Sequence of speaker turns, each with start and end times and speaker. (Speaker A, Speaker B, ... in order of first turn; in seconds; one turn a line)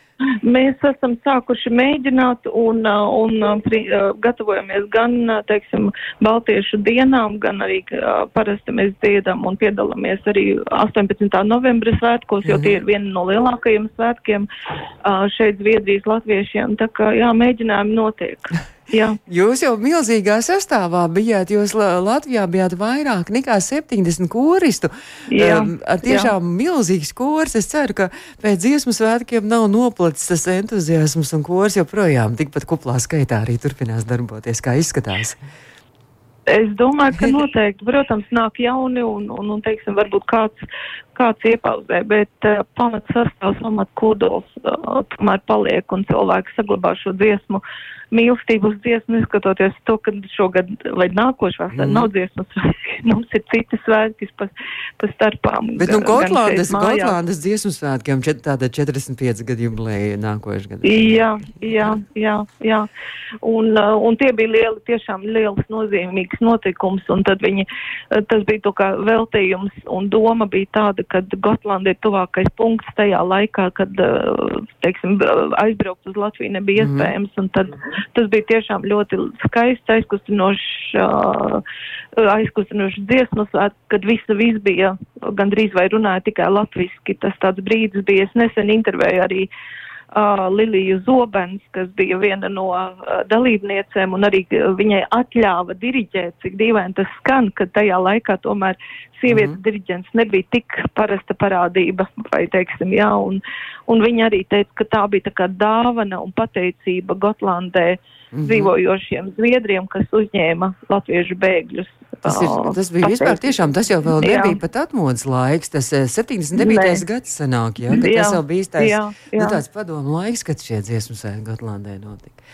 Speaker A: 0.4-14.5
Speaker B: 12.4-12.8
Speaker A: 15.0-19.2
Speaker B: 19.2-35.4
Speaker A: 25.3-26.3
Speaker A: 36.5-40.6
Speaker A: 41.1-57.1
Speaker B: 51.7-52.1
Speaker B: 55.8-61.2
Speaker A: 60.8-62.9
Speaker A: 63.4-81.6
Speaker B: 76.8-77.1
Speaker A: 82.2-89.5
Speaker A: 90.1-113.5
Speaker B: 99.3-99.6
Speaker B: 108.3-108.7
Speaker B: 112.2-122.4
Speaker A: 114.2-114.6
Speaker A: 116.6-117.0
Speaker A: 117.9-119.6